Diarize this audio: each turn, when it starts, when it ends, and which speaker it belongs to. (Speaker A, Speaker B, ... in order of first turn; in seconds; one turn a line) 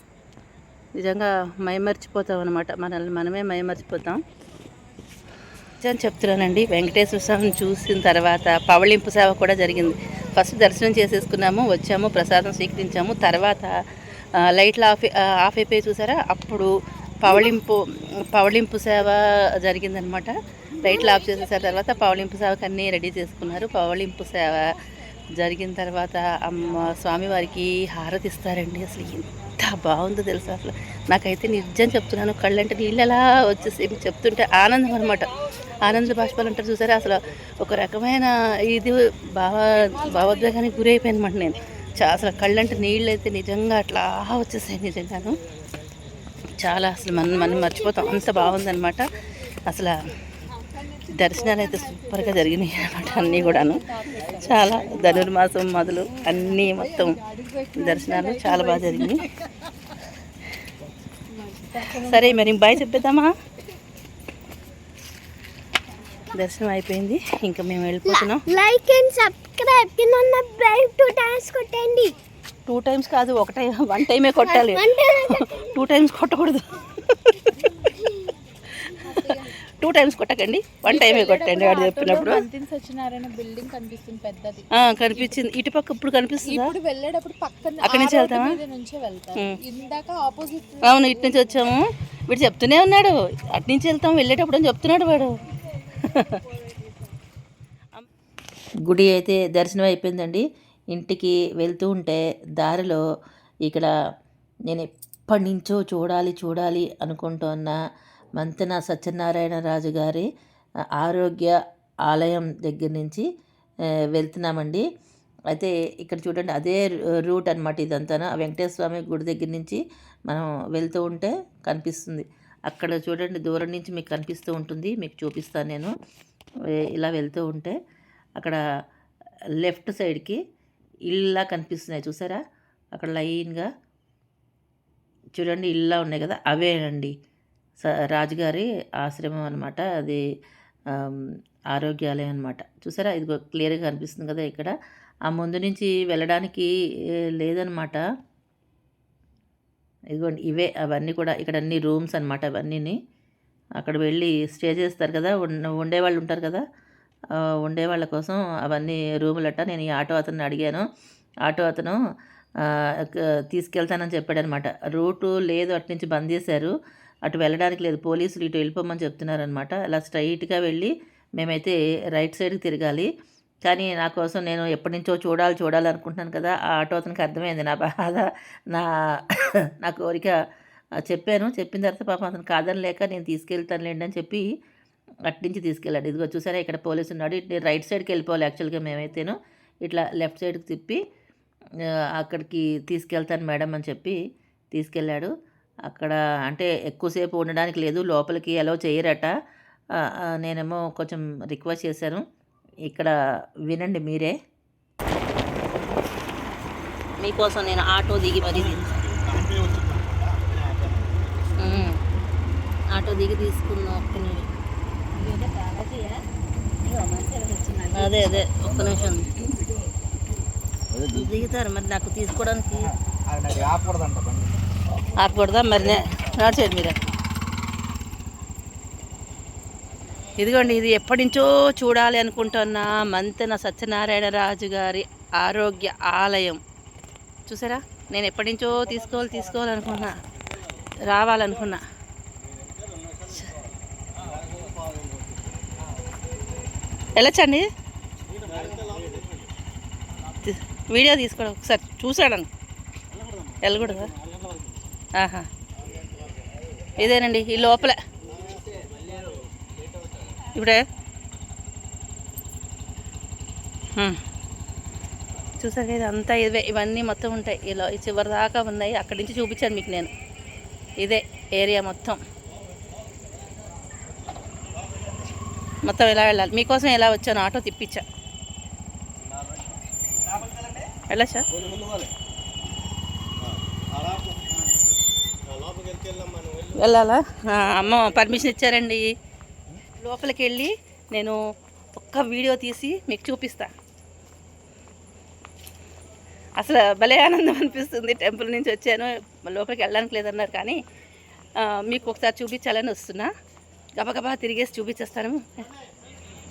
Speaker A: 1.0-4.2
Speaker A: 5.8-13.8
Speaker A: 14.4-17.8
Speaker A: 18.3-24.6
Speaker B: 20.8-21.3
Speaker A: 25.4-35.3
Speaker A: 35.8-45.4
Speaker A: 46.6-49.1
Speaker A: 49.7-50.0
Speaker A: 51.1-57.2
Speaker C: 52.9-55.0
Speaker C: 56.1-59.2
Speaker A: 57.8-59.3
Speaker C: 61.3-62.7
Speaker A: 62.0-63.3
Speaker A: 66.3-68.4
Speaker B: 68.0-72.1
Speaker A: 72.7-77.5
Speaker B: 74.4-75.9
Speaker B: 77.8-78.3
Speaker C: 79.1-79.5
Speaker A: 79.2-82.5
Speaker C: 80.9-85.5
Speaker A: 84.7-86.8
Speaker C: 86.5-91.4
Speaker A: 87.8-88.6
Speaker A: 90.8-95.3
Speaker A: 96.0-96.4
Speaker D: 98.9-103.0
Speaker D: 103.7-103.9
Speaker D: 104.7-107.8
Speaker D: 108.4-110.2
Speaker D: 111.0-111.5
Speaker D: 112.1-113.2
Speaker D: 114.2-114.8
Speaker D: 115.5-125.9
Speaker D: 126.9-127.8
Speaker D: 129.6-130.4
Speaker D: 131.1-132.4
Speaker D: 133.0-133.7
Speaker D: 135.4-137.1
Speaker D: 137.8-140.2
Speaker D: 141.8-144.7
Speaker D: 145.3-146.7
Speaker D: 147.4-148.0
Speaker D: 150.2-153.0
Speaker D: 153.8-156.6
Speaker D: 157.6-160.8
Speaker D: 161.5-162.0
Speaker D: 163.1-166.7
Speaker D: 167.3-173.1
Speaker D: 173.7-178.9
Speaker D: 179.8-180.3
Speaker D: 181.1-184.4
Speaker D: 185.3-191.0
Speaker D: 192.2-194.2
Speaker D: 194.7-195.3
Speaker D: 195.9-199.3
Speaker D: 200.4-202.2
Speaker D: 203.7-204.3
Speaker A: 207.2-208.9
Speaker A: 211.6-212.0
Speaker A: 212.9-214.5
Speaker A: 217.9-219.5
Speaker A: 221.1-222.9
Speaker C: 223.4-224.4
Speaker A: 225.2-227.0
Speaker A: 230.4-236.6
Speaker A: 237.5-240.2
Speaker A: 241.1-241.8
Speaker A: 247.2-247.7
Speaker A: 250.4-252.5
Speaker A: 253.6-254.1
Speaker A: 255.2-255.5
Speaker A: 257.0-258.0
Speaker A: 260.5-260.8
Speaker A: 265.6-270.1
Speaker A: 271.0-272.2
Speaker A: 275.9-278.0
Speaker A: 281.1-281.5
Speaker A: 286.7-289.1
Speaker A: 290.0-291.4
Speaker A: 292.0-293.7
Speaker A: 296.6-300.8
Speaker A: 301.6-303.3
Speaker A: 304.0-305.4